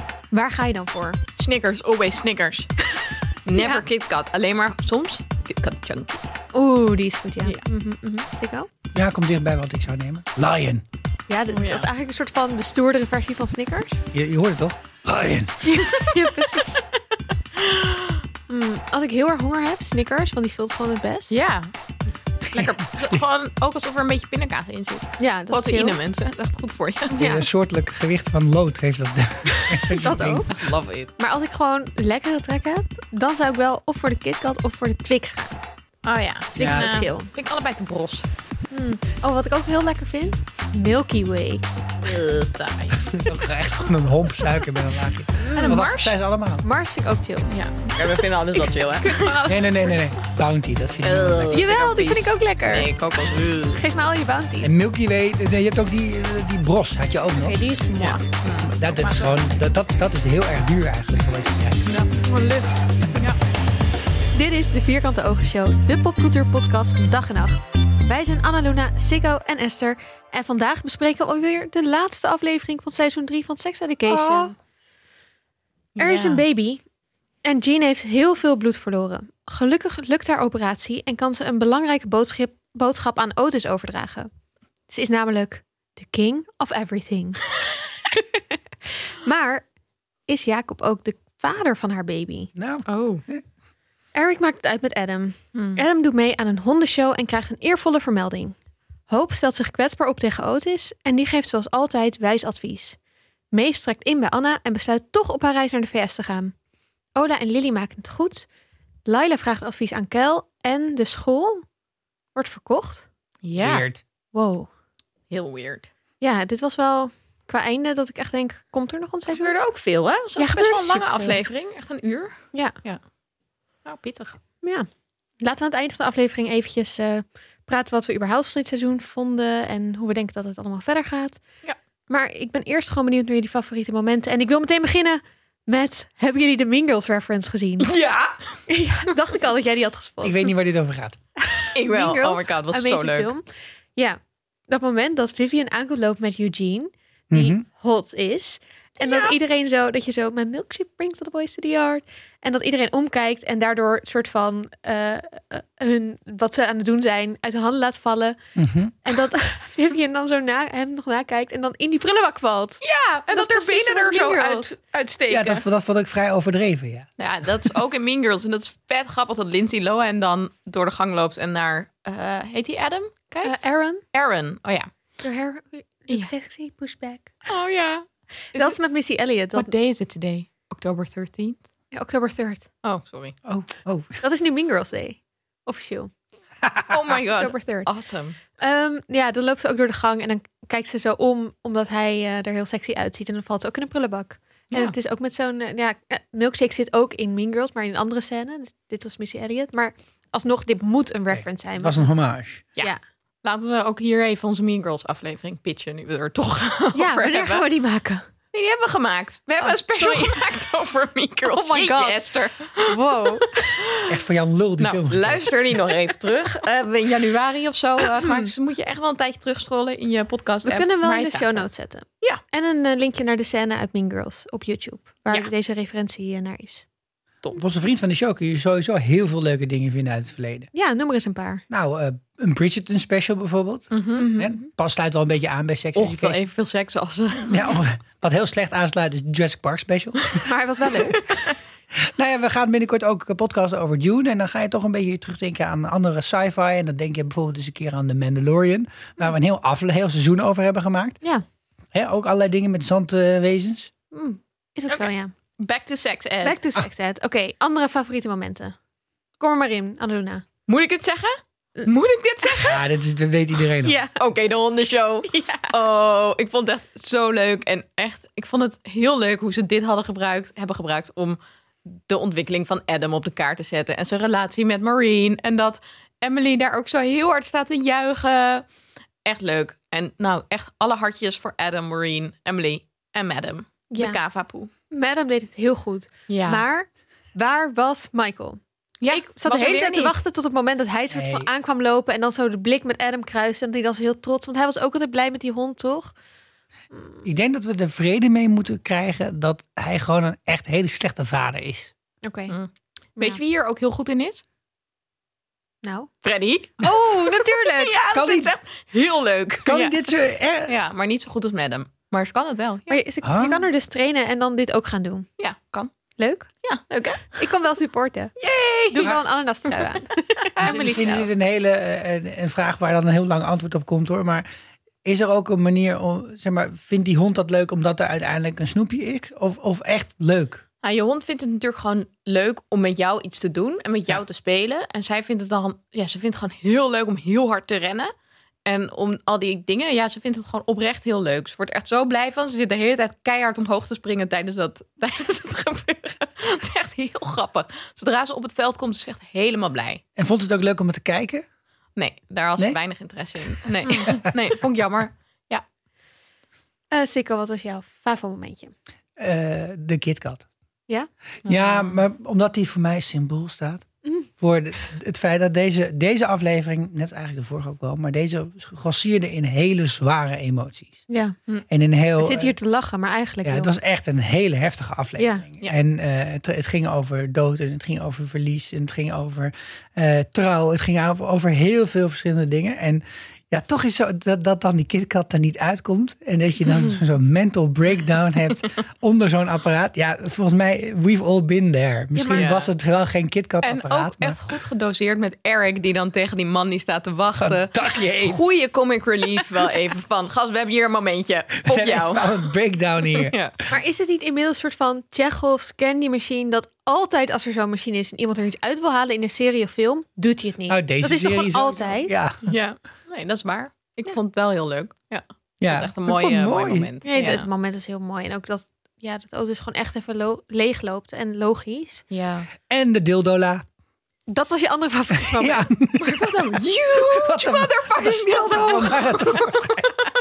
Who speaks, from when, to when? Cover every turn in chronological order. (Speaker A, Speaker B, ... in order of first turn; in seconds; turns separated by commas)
Speaker A: 0.3-1.2, Speaker B: 1.4-2.7, Speaker A: 3.0-3.8, Speaker B: 3.4-6.2, Speaker A: 6.5-8.7, Speaker C: 8.9-10.8, Speaker A: 11.3-14.0, Speaker B: 11.5-11.9, Speaker C: 14.1-15.6, Speaker A: 15.6-16.9, Speaker B: 15.9-16.6, Speaker B: 17.6-18.2, Speaker A: 18.5-21.4, Speaker B: 21.3-21.7, Speaker C: 22.4-23.2, Speaker B: 22.5-27.2, Speaker A: 25.2-26.0, Speaker A: 27.1-27.4, Speaker C: 27.2-30.5, Speaker A: 29.5-30.5, Speaker B: 30.0-31.1, Speaker A: 31.2-35.6, Speaker B: 36.0-38.2, Speaker A: 36.5-37.3, Speaker C: 36.6-36.9, Speaker A: 38.7-41.6, Speaker B: 42.0-43.2, Speaker C: 43.0-46.6, Speaker A: 45.4-45.8, Speaker B: 45.5-46.1, Speaker A: 46.6-47.5, Speaker B: 47.5-49.6, Speaker A: 48.5-49.5, Speaker C: 49.4-51.7, Speaker B: 51.0-53.8, Speaker A: 51.5-52.9, Speaker A: 53.7-54.7, Speaker C: 54.6-57.6, Speaker A: 57.4-58.2, Speaker B: 58.0-59.4, Speaker C: 58.6-61.9, Speaker B: 61.9-63.4, Speaker A: 64.3-74.5, Speaker C: 74.1-74.5, Speaker B: 76.0-76.4, Speaker A: 76.0-76.8, Speaker A: 77.4-84.3, Speaker A: 84.9-89.7, Speaker A: 90.3-92.5, Speaker C: 92.5-93.4, Speaker B: 92.9-93.2, Speaker A: 94.1-98.5, Speaker B: 95.5-95.8, Speaker A: 99.1-103.0, Speaker A: 103.5-106.5, Speaker A: 107.1-108.5, Speaker A: 109.0-111.6, Speaker A: 112.3-113.1, Speaker B: 113.4-113.8, Speaker C: 113.6-114.0, Speaker A: 114.3-114.7, Speaker B: 115.3-115.9, Speaker A: 116.2-119.5, Speaker B: 119.3-123.0, Speaker A: 120.4-121.4, Speaker B: 123.8-124.4, Speaker A: 124.6-124.9, Speaker A: 125.4-131.4, Speaker A: 132.1-137.9, Speaker C: 137.8-138.3, Speaker A: 138.7-140.5, Speaker C: 140.2-141.2, Speaker A: 141.4-143.4, Speaker B: 141.7-143.3, Speaker A: 143.9-158.4, Speaker C: 147.3-147.6, Speaker B: 149.0-149.3, Speaker C: 158.6-158.9, Speaker A: 159.0-164.7, Speaker B: 162.8-165.6, Speaker C: 165.3-167.8, Speaker B: 167.2-173.6, Speaker A: 173.4-174.0, Speaker B: 174.1-174.9, Speaker A: 175.2-177.5, Speaker B: 177.5-178.8, Speaker A: 178.5-179.7, Speaker B: 179.5-181.6, Speaker A: 181.9-182.7, Speaker B: 182.8-183.4, Speaker C: 183.4-184.2, Speaker A: 184.2-186.1, Speaker C: 186.6-186.9, Speaker B: 186.9-188.4, Speaker A: 187.4-187.9, Speaker A: 188.6-202.2, Speaker C: 201.3-202.7, Speaker B: 203.4-207.6, Speaker A: 206.9-208.3, Speaker B: 208.5-214.2, Speaker A: 209.6-210.5, Speaker A: 211.4-213.8, Speaker C: 214.1-215.9, Speaker B: 214.8-221.7, Speaker A: 218.2-218.5, Speaker A: 220.6-226.8, Speaker C: 227.6-230.7, Speaker A: 230.7-231.6, Speaker C: 231.7-236.4, Speaker B: 233.9-234.3, Speaker A: 234.2-234.7, Speaker B: 235.9-237.8, Speaker C: 237.5-240.4, Speaker A: 240.4-241.4, Speaker B: 240.9-241.6, Speaker C: 241.9-251.2, Speaker C: 251.9-253.9, Speaker A: 254.1-255.3, Speaker B: 255.6-256.6, Speaker A: 256.4-258.8, Speaker A: 259.4-260.4, Speaker B: 260.7-262.8, Speaker A: 262.4-262.7, Speaker C: 262.6-264.0, Speaker A: 263.8-264.1, Speaker B: 264.1-278.6, Speaker A: 265.3-265.7, Speaker B: 279.2-284.7, Speaker A: 283.9-284.2, Speaker A: 284.9-296.1, Speaker B: 286.3-286.6, Speaker B: 289.0-290.1, Speaker C: 291.1-291.5, Speaker A: 296.9-297.2, Speaker C: 297.2-301.9, Speaker A: 302.2-302.5, Speaker B: 302.5-304.4, Speaker A: 305.8-306.1, Speaker B: 306.2-310.1, Speaker A: 306.8-307.9, Speaker C: 308.1-308.5, Speaker C: 309.6-310.7, Speaker B: 310.6-313.0, Speaker A: 312.9-315.2, Speaker C: 313.2-313.6, Speaker B: 315.4-315.9, Speaker A: 316.2-316.5, Speaker B: 316.6-317.4, Speaker A: 317.3-318.4, Speaker B: 318.4-320.0, Speaker A: 318.9-321.2, Speaker B: 320.6-321.2, Speaker C: 320.6-324.4, Speaker C: 325.0-330.6, Speaker B: 330.8-338.1, Speaker B: 338.6-350.0, Speaker C: 350.1-351.4, Speaker B: 351.9-355.6, Speaker A: 353.8-354.1, Speaker A: 356.9-358.7, Speaker C: 359.2-360.4, Speaker C: 361.4-363.9, Speaker B: 361.4-362.0, Speaker A: 364.0-364.3, Speaker C: 364.4-371.0, Speaker A: 371.1-371.4, Speaker C: 371.7-372.6, Speaker A: 372.2-373.7, Speaker C: 373.4-394.4, Speaker A: 375.2-375.4, Speaker A: 392.1-392.5, Speaker B: 392.3-392.7, Speaker B: 393.6-402.5, Speaker C: 397.4-398.4, Speaker C: 401.6-403.3, Speaker B: 403.0-403.6, Speaker A: 403.7-412.1, Speaker C: 410.7-412.5, Speaker B: 412.4-417.5, Speaker C: 415.6-416.9, Speaker A: 417.0-422.0, Speaker B: 422.1-422.5, Speaker C: 422.7-423.6, Speaker A: 424.3-426.6, Speaker C: 425.2-429.9, Speaker B: 426.2-430.1